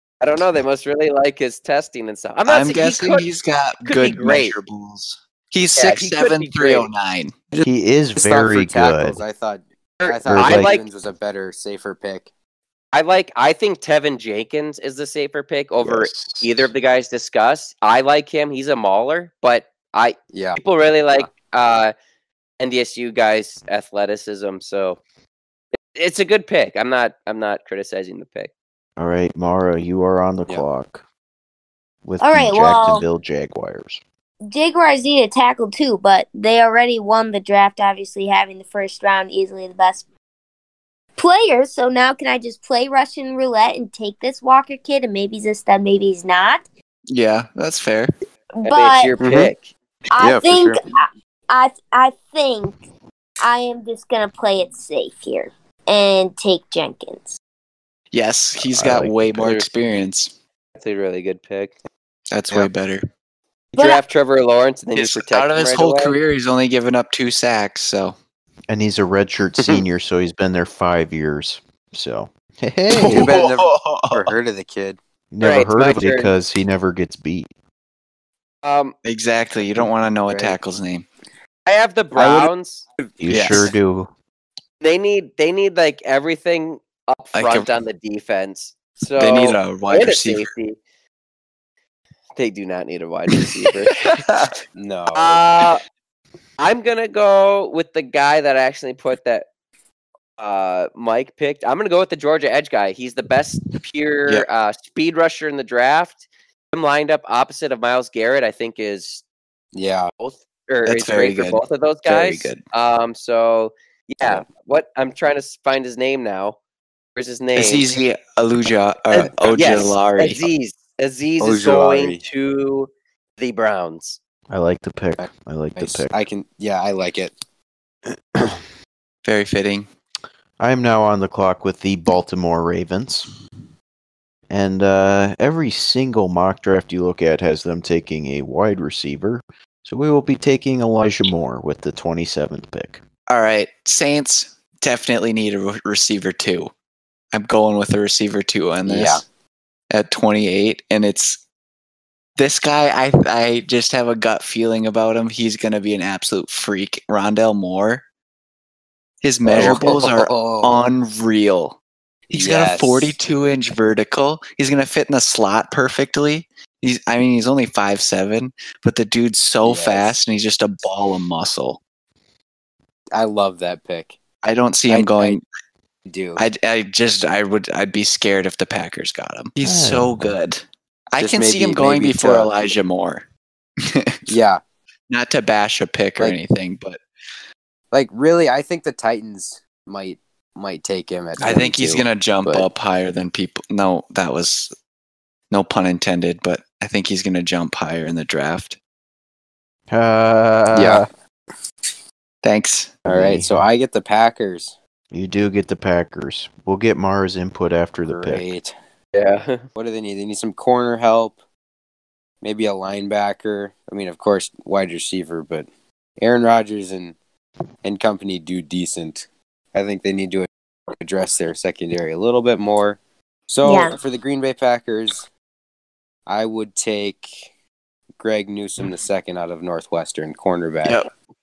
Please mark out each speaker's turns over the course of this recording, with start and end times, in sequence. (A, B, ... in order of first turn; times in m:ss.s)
0:00.2-0:03.3 A
0:02.5-0:07.4 B
0:03.8-0:04.6 A
0:05.8-0:06.9 A
0:07.5-0:12.3 C
0:07.6-0:09.2 D
0:10.0-0:10.9 A
0:10.3-0:10.7 D
0:12.9-0:21.9 A
0:15.8-0:16.7 D
0:20.3-0:20.6 C
0:22.6-0:25.0 A
0:25.8-0:28.5 A
0:29.0-0:31.0 D
0:32.0-0:34.0 D
0:32.2-0:33.0 E
0:34.5-0:40.0 E
0:41.2-0:46.6 E
0:47.1-0:48.1 B
0:48.6-0:49.2 E
0:48.6-0:49.7 A
0:49.2-0:49.5 C
0:50.1-0:52.8 E
0:50.2-0:50.8 C
0:53.4-0:57.4 E
0:58.1-1:00.3 B
0:58.7-0:59.4 D
0:59.4-0:59.7 A
1:00.8-1:01.7 A
1:02.3-1:03.0 B
1:03.7-1:06.1 A
1:03.8-1:04.0 E
1:05.0-1:08.2 B
1:08.7-1:13.4 D
1:09.6-1:09.8 C
1:12.9-1:14.3 B
1:13.0-1:15.0 C
1:15.3-1:17.5 D
1:15.4-1:16.3 A
1:18.6-1:18.9 A
1:19.0-1:21.1 B
1:20.3-1:20.6 C
1:21.6-1:22.8 A
1:22.1-1:23.1 C
1:23.2-1:24.1 D
1:23.3-1:23.7 B
1:24.8-1:30.8 A
1:27.4-1:27.7 B
1:29.2-1:30.5 B
1:32.4-1:34.0 A
1:34.0-1:34.5 B
1:34.8-1:35.4 C
1:35.1-1:35.8 A
1:36.6-1:39.5 A
1:40.4-1:49.2 A
1:49.7-1:50.1 C
1:50.2-1:56.6 A
1:50.9-1:52.6 B
1:57.2-1:57.9 A
1:57.6-2:00.5 B
1:59.1-2:04.2 A
1:59.1-1:59.8 C
2:01.4-2:02.2 C
2:04.5-2:06.1 D
2:05.2-2:07.3 C
2:09.2-2:09.9 B
2:10.6-2:13.3 D
2:14.5-2:23.0 D
2:23.3-2:26.7 B
2:27.3-2:29.2 B
2:28.8-2:29.2 C
2:29.9-2:31.4 B
2:32.4-2:38.0 B
2:39.2-2:41.8 B
2:39.4-2:40.9 C
2:42.3-2:51.8 B
2:42.3-2:43.2 C
2:49.6-2:50.2 C
2:53.1-2:54.2 C
2:54.4-2:55.4 B
2:54.9-2:55.4 C
2:56.1-2:56.4 C
2:56.4-3:03.2 B
2:59.6-3:00.4 D
3:01.2-3:02.5 C
3:03.8-3:04.2 B
3:04.3-3:04.6 C
3:05.1-3:07.0 B
3:07.9-3:12.7 C
3:11.4-3:14.7 B
3:15.5-3:18.8 B
3:19.9-3:21.1 D
3:20.7-3:21.1 C
3:22.4-3:23.0 B
3:23.1-3:23.6 D
3:23.1-3:24.8 C
3:25.1-3:28.4 D
3:28.1-3:28.7 C
3:29.1-3:29.6 A
3:29.8-3:31.4 C
3:32.4-3:35.7 C
3:36.2-3:37.2 C
3:37.8-3:45.2 C
3:43.6-3:44.0 E
3:46.3-3:47.4 C
3:48.2-3:51.0 C